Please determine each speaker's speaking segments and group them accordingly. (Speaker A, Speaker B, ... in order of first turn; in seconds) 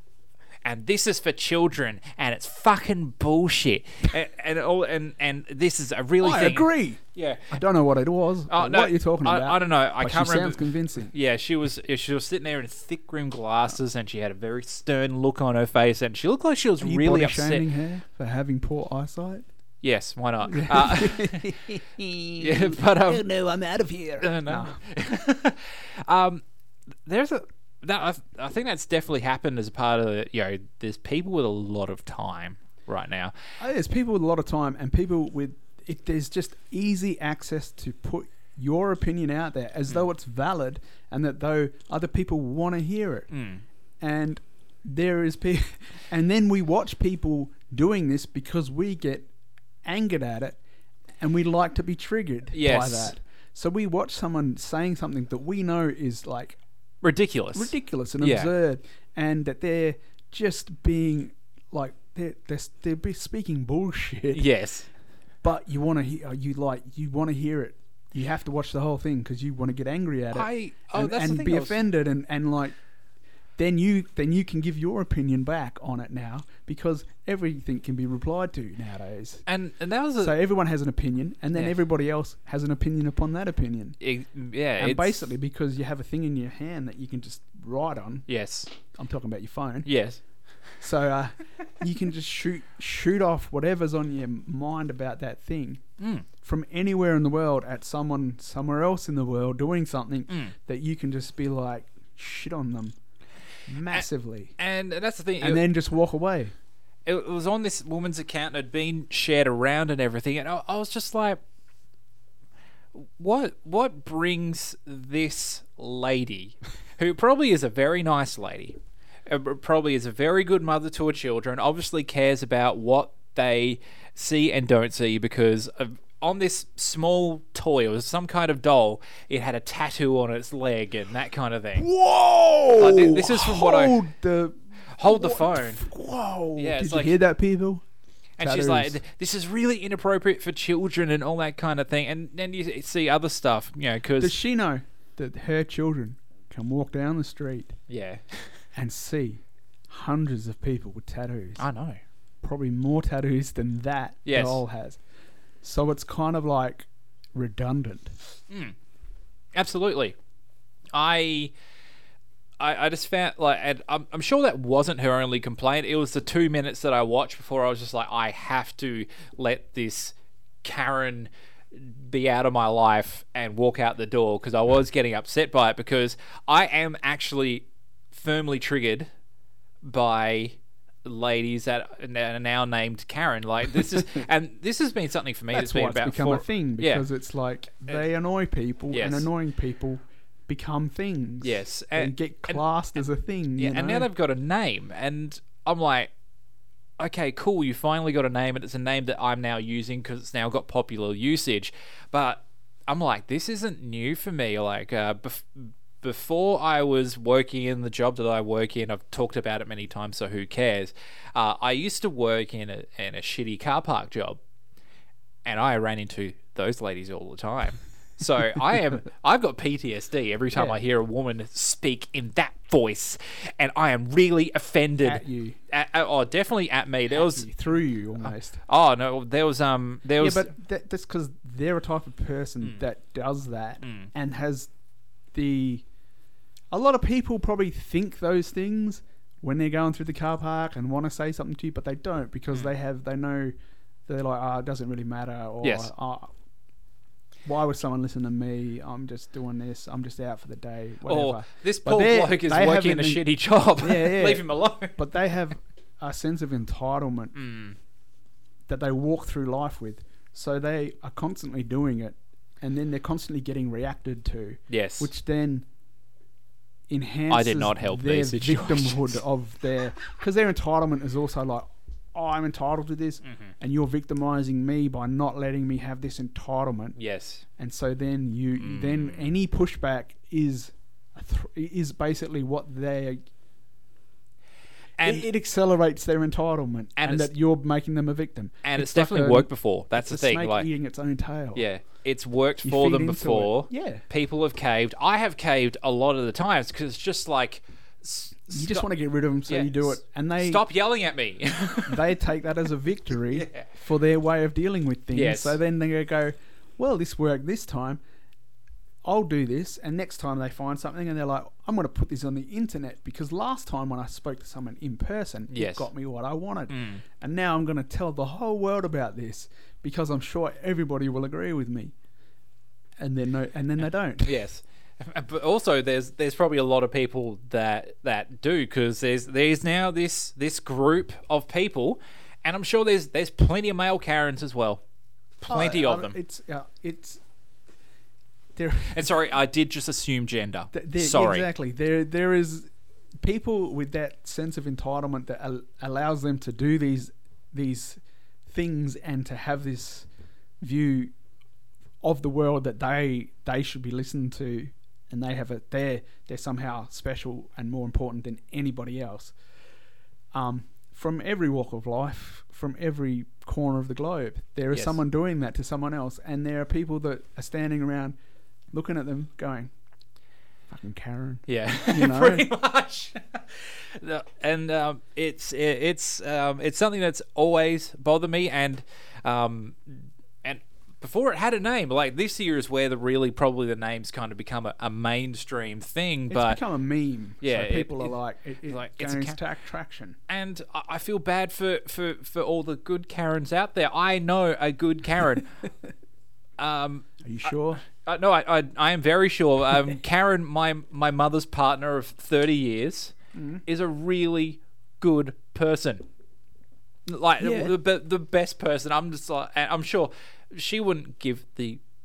Speaker A: 0.6-7.6, 8.5-17.7, 19.8-21.5, 22.4-23.2, 24.2-26.4, 27.1-33.3, 43.3-43.6, 52.5-53.2, 57.0-58.5, 64.3-64.9, 70.3-71.8, 79.5-80.4, 84.0-85.3, 88.3-88.7, 89.8-90.2, 96.0-96.3, 104.6-105.7, 107.0-111.4, 112.9-131.9, 132.8-134.0, 134.9-135.8, 136.6-137.2, 138.4-144.4, 147.9-148.6, 151.6-152.0, 154.3-154.6, 158.5-158.8, 159.6-160.2, 160.9-161.5, 162.6-179.1, 179.8-187.1, 188.9-189.3, 191.4-192.6, 193.6-196.1, 197.0-214.4, 215.4-227.5, 228.2-230.5, 233.8-234.1, 245.6-245.9, 251.1-255.0, 257.4-257.8, 264.7-265.1, 267.3-269.2, 277.0-277.4, 278.6-279.3, 285.0-285.3, 287.0-287.3, 288.6-290.7, 291.6-298.9, 299.5-302.1, 303.3-303.7, 305.1-305.6, 315.5-315.9, 316.7-317.0, 324.2-334.8, 335.4-336.2, 338.9-341.5, 364.7-365.0, 371.5-386.6, 387.4-388.1, 388.7-389.4, 390.3-395.5, 396.6-397.1, 397.9-403.1, 403.7-406.1, 407.1-411.8
Speaker B: 6.2-11.1, 16.8-19.5, 20.5-24.8, 33.6-43.3, 44.0-49.3, 49.9-50.6, 51.2-56.6, 57.5-64.5, 65.4-72.8, 73.6-79.5, 80.2-84.0, 84.8-88.3, 88.9-89.9, 90.8-95.8, 96.4-103.0, 103.7-104.6, 105.4-106.5, 131.8-137.8, 138.4-139.0, 144.2-147.8, 148.8-151.6, 152.4-155.0, 155.6-158.2, 185.5-194.1, 225.0-225.6, 227.2-228.6, 230.2-234.7, 235.3-235.8, 236.7-243.5, 244.1-246.3, 247.4-253.3, 253.8-257.4, 258.7-265.7, 266.9-277.0, 277.6-283.2, 285.0-291.7, 292.6-294.0, 298.5-300.6, 301.9-308.0, 309.0-321.9, 323.0-324.4, 335.5-337.2, 338.6-339.0, 340.7-342.7, 343.2-350.1, 350.6-351.1, 352.0-359.4, 360.3-368.2, 368.7-369.7, 370.7-372.5, 386.3-390.2, 397.2-397.8, 403.3-403.6, 407.4-407.7